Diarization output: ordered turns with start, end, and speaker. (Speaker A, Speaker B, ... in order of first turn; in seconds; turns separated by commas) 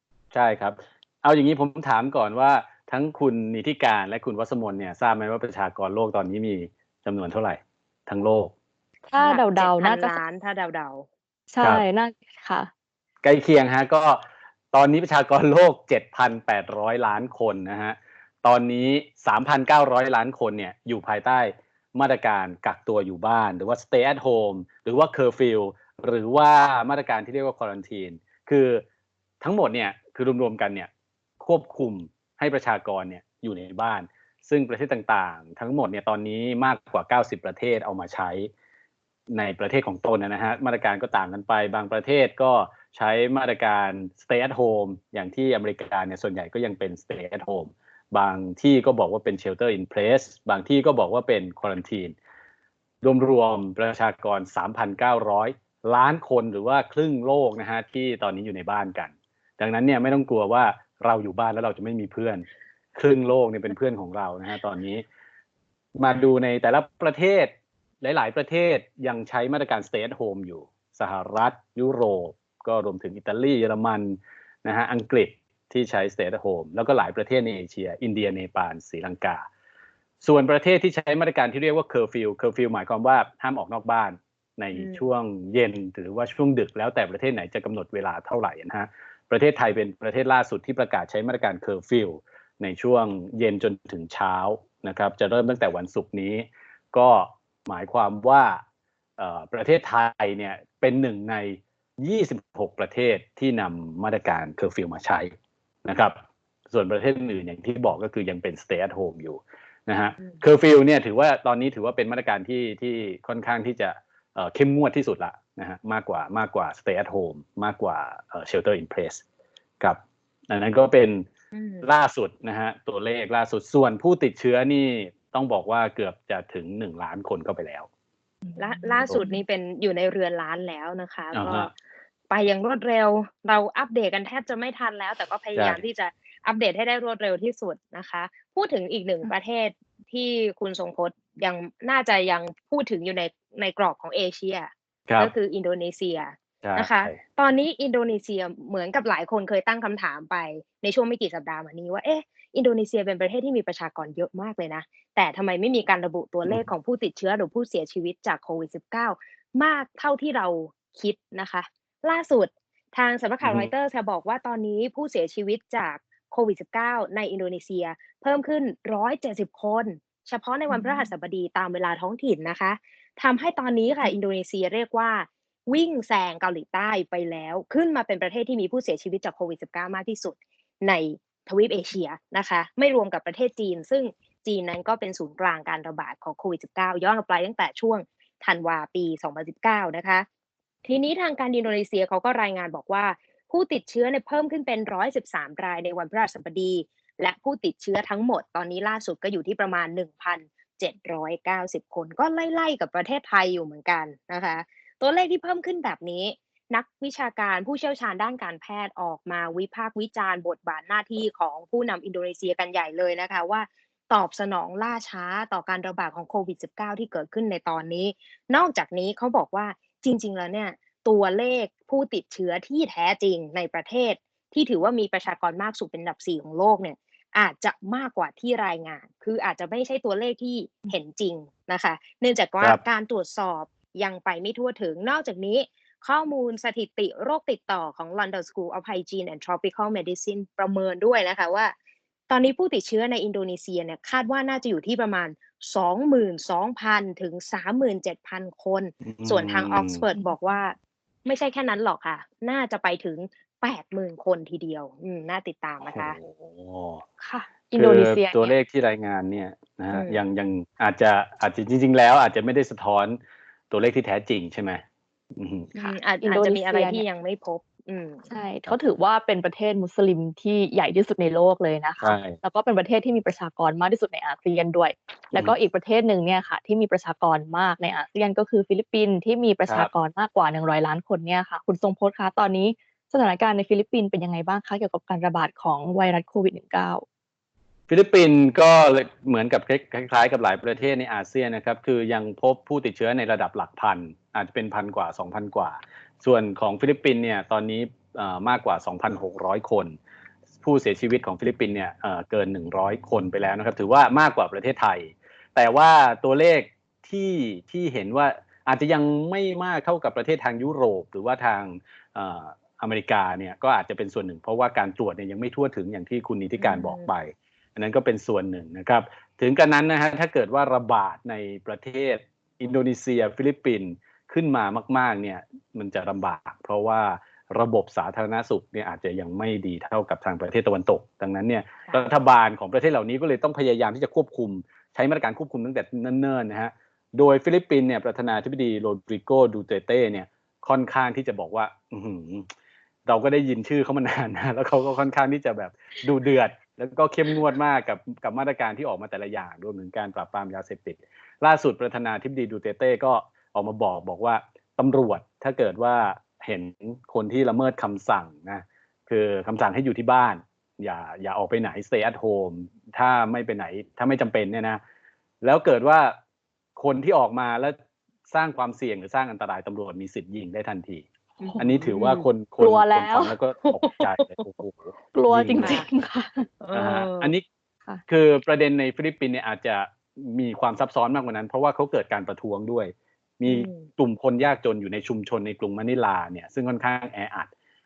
Speaker A: 0.3-8.5, Speaker B: 9.1-10.2, Speaker C: 9.2-11.1, Speaker B: 11.5-12.7, Speaker A: 13.2-28.8, Speaker A: 29.4-30.9, Speaker A: 31.4-38.5, Speaker A: 39.3-52.1, Speaker A: 53.0-65.0, Speaker A: 66.0-79.5, Speaker A: 80.2-98.6, Speaker C: 84.7-85.1, Speaker A: 99.2-105.3, Speaker A: 105.8-106.2, Speaker A: 106.7-119.2, Speaker A: 119.8-121.3, Speaker C: 121.5-121.9, Speaker A: 121.8-127.9, Speaker B: 128.4-129.3, Speaker C: 128.6-131.7, Speaker A: 131.3-131.7, Speaker C: 132.3-190.2, Speaker A: 135.6-135.8, Speaker A: 145.1-145.3, Speaker A: 146.6-147.2, Speaker A: 163.4-163.7, Speaker B: 170.7-171.1, Speaker C: 190.8-241.7, Speaker C: 242.3-256.2, Speaker A: 249.0-250.0, Speaker A: 255.8-257.0, Speaker C: 257.2-257.5, Speaker B: 257.7-258.5, Speaker A: 257.7-263.2, Speaker C: 259.9-260.2, Speaker A: 263.7-264.8, Speaker A: 265.4-265.7, Speaker C: 265.7-268.2, Speaker B: 265.8-267.0, Speaker B: 268.3-287.0, Speaker A: 272.0-272.4, Speaker A: 287.9-300.0, Speaker A: 300.6-342.5, Speaker C: 316.6-317.1, Speaker A: 343.1-364.8, Speaker A: 365.4-366.1, Speaker A: 366.8-367.8, Speaker A: 368.3-375.8, Speaker C: 371.4-372.2, Speaker B: 372.6-373.3, Speaker C: 373.6-374.3, Speaker B: 375.1-376.5, Speaker C: 375.6-375.9, Speaker C: 376.6-377.3, Speaker A: 376.7-377.4, Speaker A: 378.1-387.5, Speaker C: 383.4-383.9